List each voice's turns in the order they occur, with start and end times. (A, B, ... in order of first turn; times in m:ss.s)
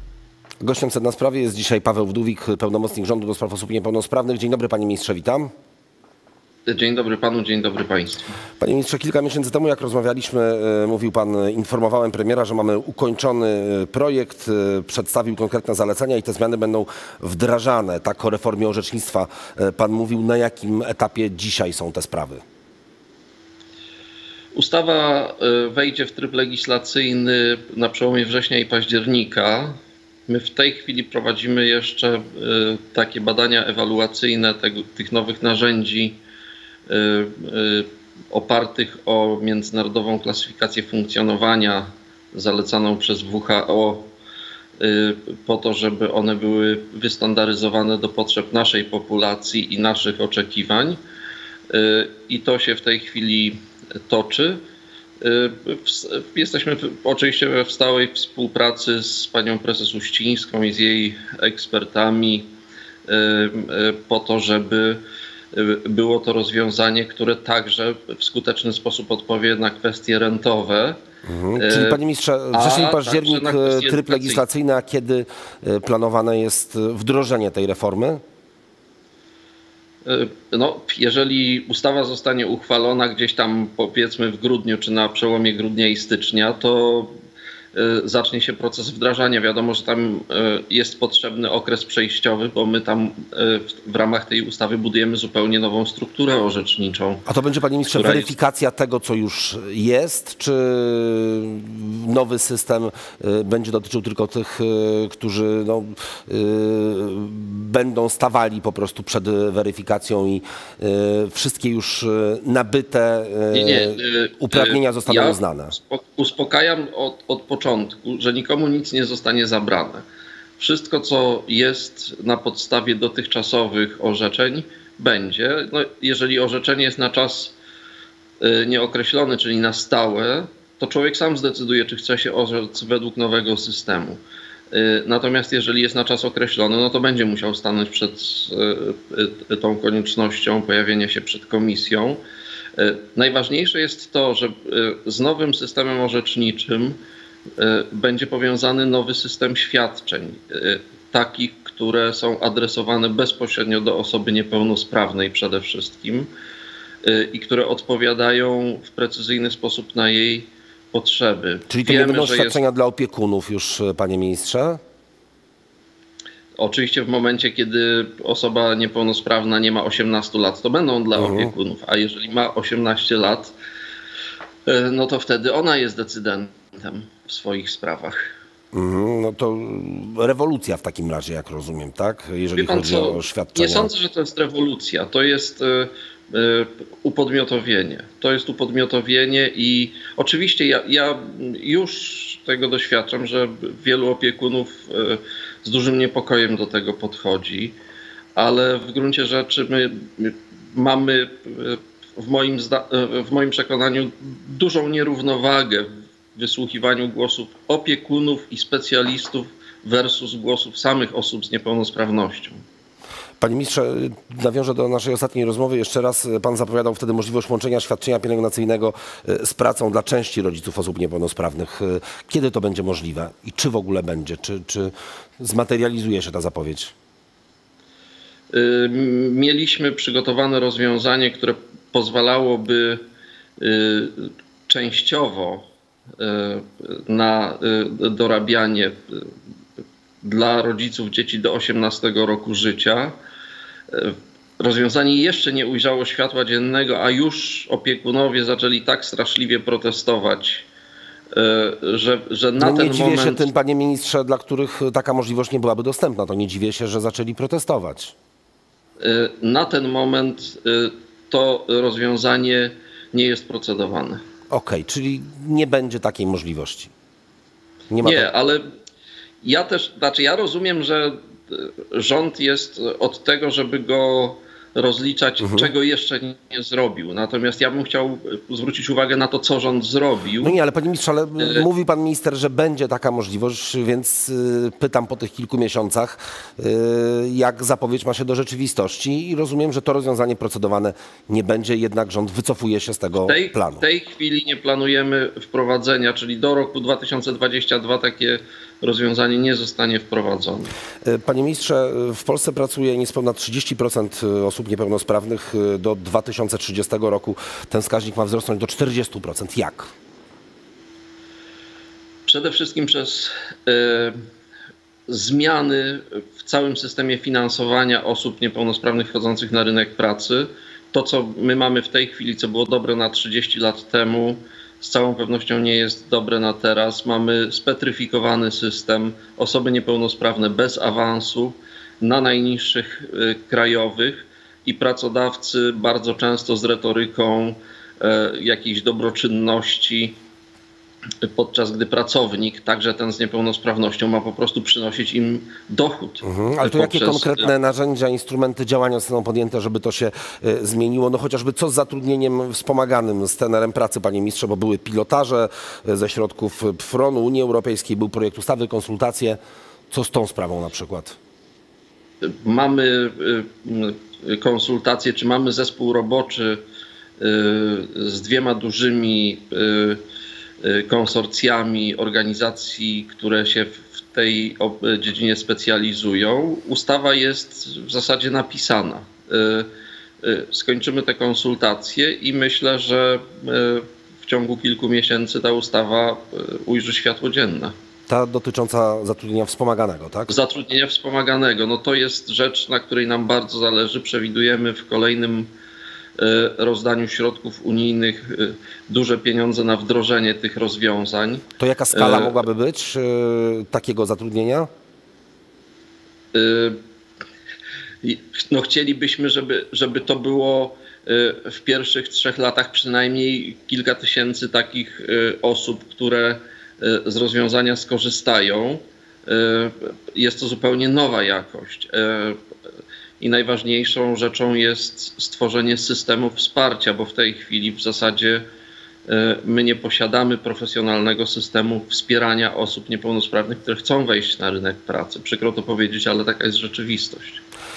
0:00.6-0:05.5 A
0:06.7-0:08.2 B
0:08.6-0:22.4 A
0:24.5-0:36.2 B
0:36.9-0:44.1 B
0:44.8-0:51.0 B
0:51.7-0:54.6 B
0:55.2-1:02.5 B
1:03.1-1:11.0 B
1:11.2-1:18.2 A
1:11.6-1:12.0 B
1:12.5-1:14.4 B
1:20.1-1:27.2 B
1:27.7-1:37.2 B
1:37.3-1:55.7 A
1:37.9-1:38.3 B
1:53.5-2:00.0 B
2:00.6-2:07.5 B
2:08.4-2:14.2 B
2:14.7-2:22.2 B
2:22.8-2:27.0 B
2:27.6-2:36.3 B
2:37.0-2:42.6 B
2:41.7-2:44.8 A
2:46.6-2:53.5 B
2:51.2-2:51.5 A
2:54.7-2:58.3 B
2:58.7-3:03.9 A
3:02.5-3:17.8 B
3:18.4-3:32.6 B
3:33.4-3:46.9 A
3:48.5-3:53.0 B
3:53.6-3:55.6 B
3:56.2-3:59.3 B
4:00.2-4:03.2 B
4:03.9-4:10.7 B
4:11.3-4:13.4 B
4:12.6-4:18.1 A
4:19.0-4:24.2 B
4:24.5-4:26.9 A
4:27.9-4:28.3 A
4:28.0-4:28.7 B
4:29.4-4:40.6 B
4:35.4-4:35.7 A
4:40.4-4:53.8 A
4:41.4-4:41.6 B
4:53.2-5:00.7 B
5:01.0-5:09.9 A
5:12.2-5:14.2 B
5:15.1-5:40.2 B
5:41.2-5:47.5 B
5:46.2-5:59.4 A
5:59.9-6:01.2 A
6:02.2-6:06.6 B
6:07.2-6:10.0 B
6:10.6-6:19.7 B
6:20.2-6:27.8 B
6:28.1-6:30.3 A
6:30.3-6:35.5 B
6:36.2-6:42.4 B
6:41.6-6:44.7 A
6:46.3-6:46.8 B
6:48.0-7:02.4 B
7:03.2-7:08.4 B
7:09.1-7:17.4 B